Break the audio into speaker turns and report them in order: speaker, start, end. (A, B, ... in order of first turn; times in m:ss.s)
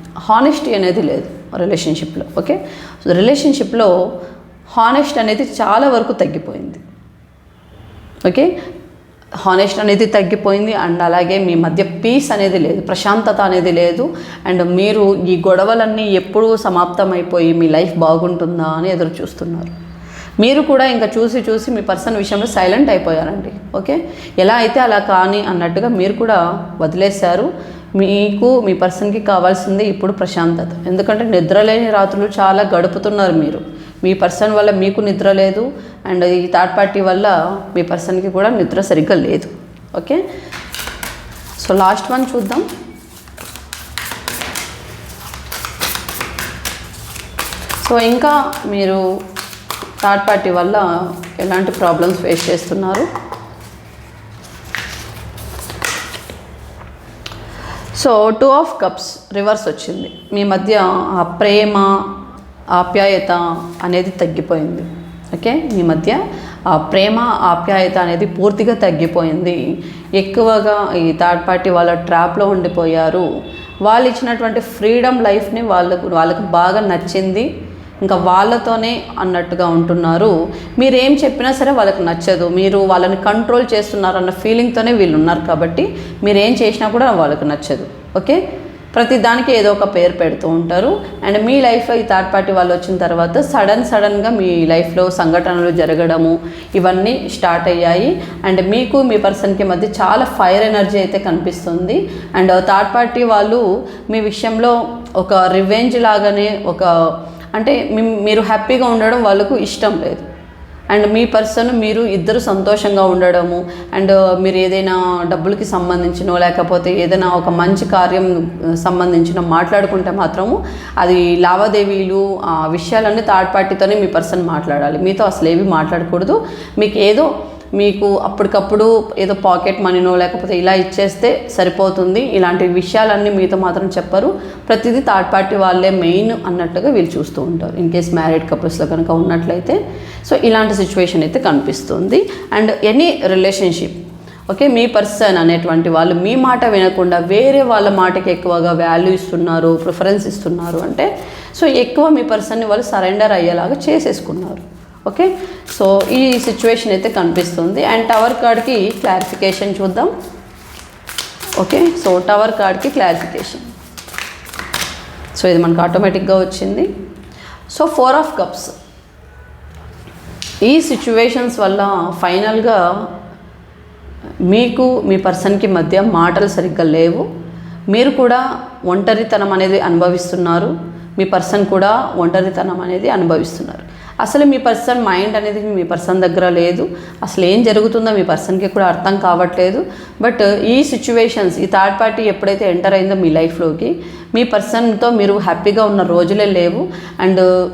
0:00.2-0:03.9 A
0:04.7-0:06.8 A
0:08.3-0:08.5 A
0:09.4-0:19.8 A
0:20.4-0:40.2 A
0:41.6-0:42.7 A
0:47.8-0:49.0 A
0:50.0-0:53.1 A
0:58.0-1:02.0 A
1:02.7-1:09.6 A
1:10.2-1:13.3 A
1:13.8-1:17.5 A
1:18.0-1:28.4 A
1:28.9-1:50.3 A
1:50.9-2:40.1 A
2:41.6-2:43.7 A
2:45.4-2:46.9 A
2:47.7-2:48.7 A
2:50.6-2:53.1 A
2:54.5-2:57.3 A
2:57.9-3:17.5 A